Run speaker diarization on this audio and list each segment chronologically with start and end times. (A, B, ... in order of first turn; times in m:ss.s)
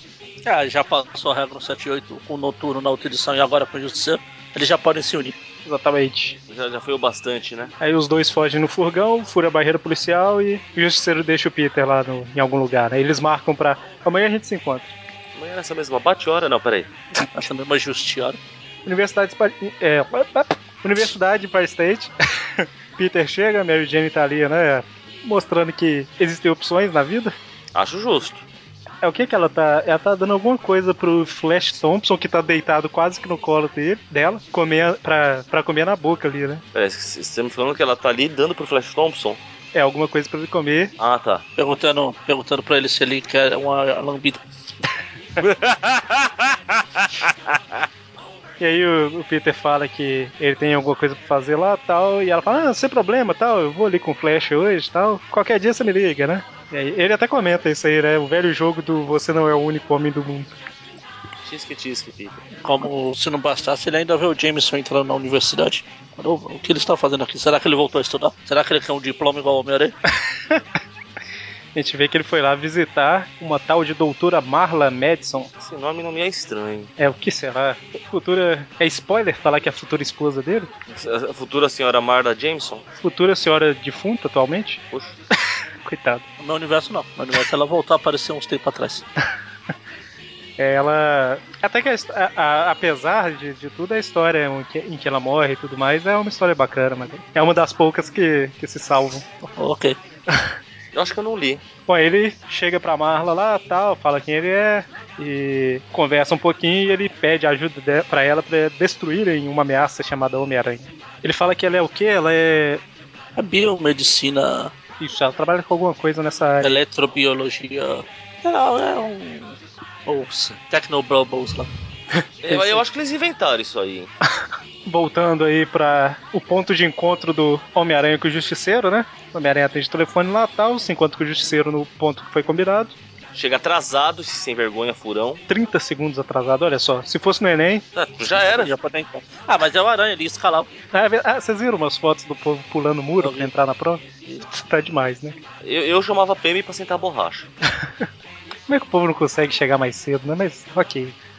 0:00.4-0:05.4 A
0:05.6-0:06.4 B
0:06.5-0:07.7 C
0:07.8-0:14.9 B
0:15.4-0:16.9 C
0:17.3-0:18.4 A
0:18.9-0:27.3 B
0:27.8-0:28.4 C
0:29.0-0:36.6 B
0:36.7-0:39.4 C
0:39.7-0:40.9 B
0:41.0-0:41.4 C
0:41.6-0:44.4 A
0:45.4-0:47.6 C
0:48.6-1:00.5 B
1:01.4-1:02.4 C
1:02.6-1:09.9 A
1:11.8-1:15.5 B
1:15.6-1:16.9 C
1:17.0-1:20.7 B
1:20.9-1:22.8 C
1:23.0-1:24.8 B
1:24.9-1:25.2 C
1:25.8-1:26.2 B
1:26.4-1:29.0 A
1:30.6-1:39.2 B
1:39.4-1:40.0 A
1:40.9-1:41.6 C
1:41.9-1:52.8 B
1:53.4-1:54.7 A
1:55.0-1:56.8 B
1:56.6-2:01.7 A
2:02.4-2:04.1 C
2:02.5-2:02.8 B
2:04.8-2:13.0 B
2:13.3-2:15.4 C
2:15.5-2:17.8 B
2:18.0-2:18.7 C
2:18.4-2:20.7 A
2:20.9-2:25.4 B
2:23.2-2:23.5 A
2:25.6-2:27.5 C
2:28.7-2:31.2 B